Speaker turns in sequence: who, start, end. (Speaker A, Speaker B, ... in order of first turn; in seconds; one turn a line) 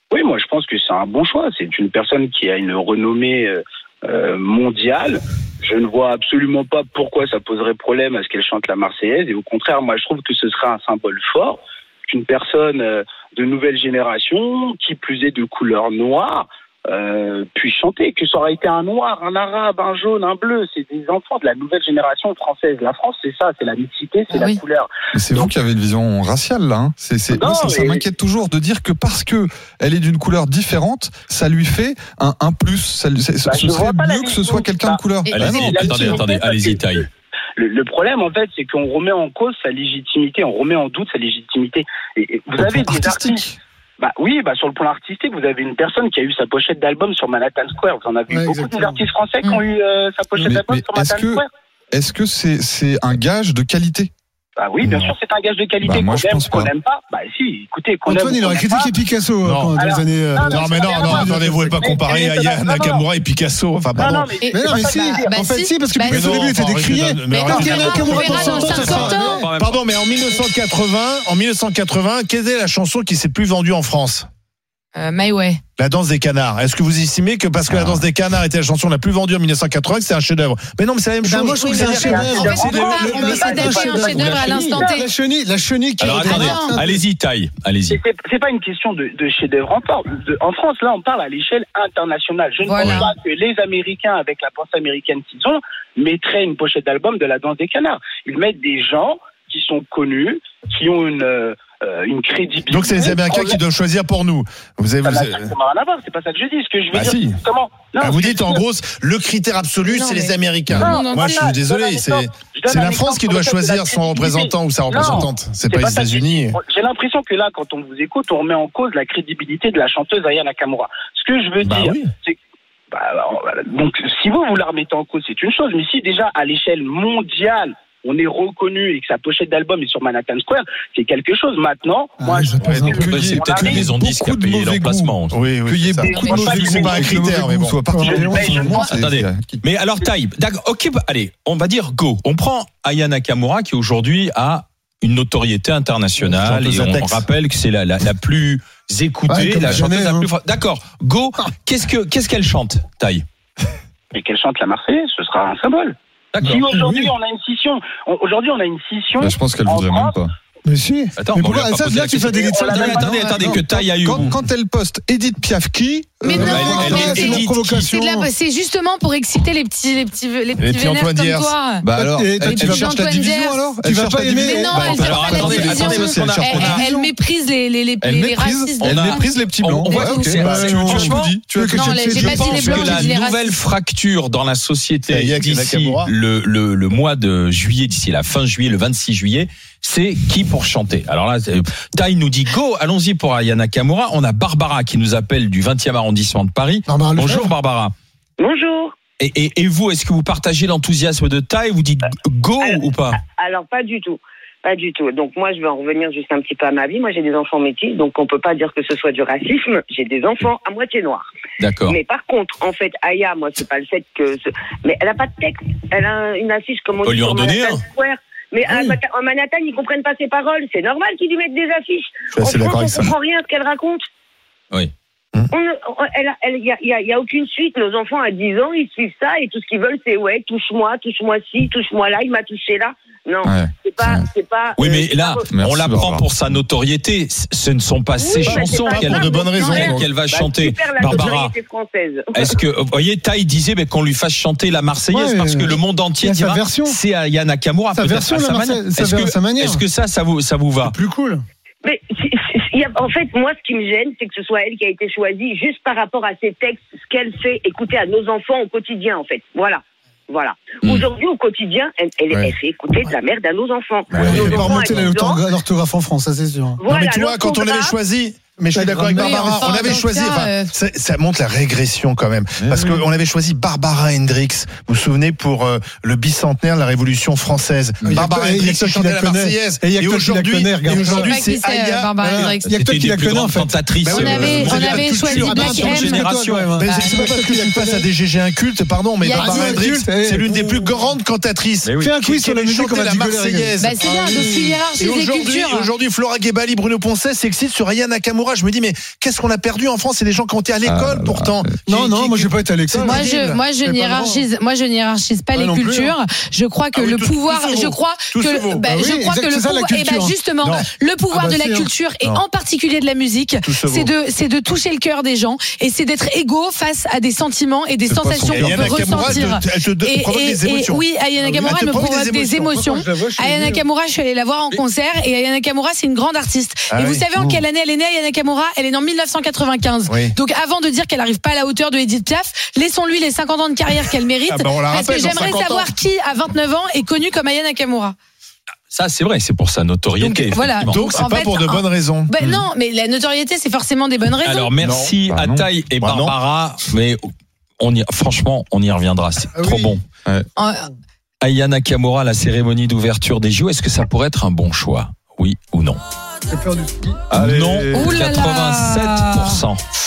Speaker A: 0.1-25.5
Speaker B: 24.3-24.6
Speaker C: 25.1-36.3
Speaker A: 27.3-28.0
Speaker A: 33.5-37.0
Speaker D: 35.3-37.1
Speaker A: 37.6-43.4
Speaker C: 42.6-43.6
Speaker A: 44.0-51.5
Speaker E: 48.3-49.0
Speaker C: 50.4-54.1
Speaker A: 54.6-58.9
Speaker F: 54.8-55.1
Speaker C: 55.8-56.7
Speaker E: 58.0-61.5
Speaker F: 59.4-59.8
Speaker A: 59.8-63.0
Speaker F: 60.4-64.4
Speaker A: 63.9-65.4
Speaker B: 64.4-66.5
Speaker E: 64.5-69.5
Speaker F: 66.1-74.3
Speaker B: 67.3-69.4
Speaker D: 68.6-69.8
Speaker B: 75.0-75.6
Speaker F: 75.8-83.0
Speaker E: 81.2-87.0
Speaker G: 81.6-82.3
Speaker A: 82.0-85.0
Speaker B: 82.2-85.1
Speaker G: 83.2-83.7
Speaker F: 84.1-84.6
Speaker D: 86.0-88.0
Speaker B: 86.2-86.8
Speaker A: 87.9-103.6
Speaker B: 92.6-93.1
Speaker F: 102.7-105.5
Speaker A: 105.0-108.6
Speaker F: 106.9-107.4
Speaker F: 108.0-116.6
Speaker B: 109.9-111.5
Speaker A: 110.7-122.4
Speaker F: 121.6-122.1
Speaker A: 122.9-133.9
Speaker E: 132.2-133.1
Speaker F: 132.7-133.1
Speaker D: 133.0-135.4
Speaker C: 133.0-139.6
Speaker F: 135.3-137.9
Speaker A: 136.0-137.3
Speaker E: 137.9-138.7
Speaker A: 138.0-138.8
Speaker D: 138.8-153.2
Speaker F: 146.2-147.2
Speaker E: 149.3-150.3
Speaker A: 154.1-160.2
Speaker D: 156.3-156.7
Speaker E: 156.6-157.1
Speaker C: 159.2-160.3
Speaker E: 160.7-163.6
Speaker D: 161.2-164.4
Speaker A: 162.0-163.4
Speaker C: 163.4-167.1
Speaker B: 166.2-171.8
Speaker E: 166.3-168.3
Speaker D: 166.4-167.8
Speaker F: 170.6-171.5
Speaker C: 171.8-176.9
Speaker E: 171.9-173.0
Speaker B: 172.4-173.6
Speaker E: 173.8-174.8
Speaker B: 174.3-180.5
Speaker D: 174.9-176.8
Speaker E: 176.8-177.1
Speaker C: 178.0-183.0
Speaker D: 178.8-181.3
Speaker E: 180.3-183.1
Speaker F: 180.4-180.8
Speaker B: 181.7-183.6
Speaker D: 182.2-197.9
Speaker F: 185.1-186.1
Speaker E: 196.9-197.5
Speaker G: 198.4-199.0
Speaker D: 199.2-203.2
Speaker G: 202.6-211.3
Speaker D: 211.6-212.0
Speaker G: 211.9-224.1
Speaker D: 217.0-217.8
Speaker F: 222.3-223.1
Speaker G: 225.5-235.5
Speaker C: 233.4-234.3
Speaker D: 234.8-241.6
Speaker C: 235.5-236.3
Speaker G: 238.2-242.5
Speaker F: 238.4-240.1
Speaker D: 242.3-250.9
Speaker E: 245.1-247.0
Speaker E: 247.9-249.8
Speaker E: 250.8-251.4
Speaker G: 251.8-265.6
Speaker D: 260.8-261.1
Speaker D: 264.1-265.0
Speaker E: 264.2-266.8
Speaker F: 264.3-264.8
Speaker G: 266.8-268.0
Speaker F: 266.9-282.2
Speaker E: 268.7-270.0
Speaker B: 269.2-270.7
Speaker C: 272.6-273.1
Speaker C: 278.0-278.3
Speaker E: 278.1-281.4
Speaker B: 280.9-282.7
Speaker E: 282.2-283.8
Speaker D: 282.4-286.8
Speaker F: 284.0-286.1
Speaker B: 284.1-286.3
Speaker E: 285.4-288.1
Speaker F: 286.8-294.0
Speaker B: 286.8-287.3
Speaker B: 289.2-290.1
Speaker E: 289.3-291.1
Speaker D: 291.8-292.1
Speaker E: 292.0-294.9
Speaker B: 293.8-295.9
Speaker F: 294.9-303.3
Speaker C: 300.8-301.8
Speaker E: 301.9-304.4
Speaker B: 303.0-338.1
Speaker E: 305.5-306.1
Speaker F: 306.9-308.8
Speaker E: 308.9-310.5
Speaker F: 310.6-310.9
Speaker E: 311.3-311.9
Speaker F: 313.6-314.1
Speaker C: 318.1-319.6
Speaker F: 318.5-322.9
Speaker E: 321.4-323.8
Speaker F: 326.9-327.6
Speaker F: 330.1-330.4
Speaker F: 334.5-335.9
Speaker D: 338.9-341.1
Speaker B: 340.2-344.7
Speaker F: 340.9-342.3
Speaker C: 342.4-342.7
Speaker D: 344.4-347.3
Speaker F: 344.8-345.1
Speaker C: 345.3-345.7
Speaker F: 346.0-346.4
Speaker D: 347.8-350.0
Speaker E: 349.6-350.0
Speaker B: 350.6-350.9
Speaker D: 351.4-356.0
Speaker E: 356.5-357.2
Speaker C: 357.3-358.2
Speaker D: 357.3-359.8
Speaker B: 357.9-359.6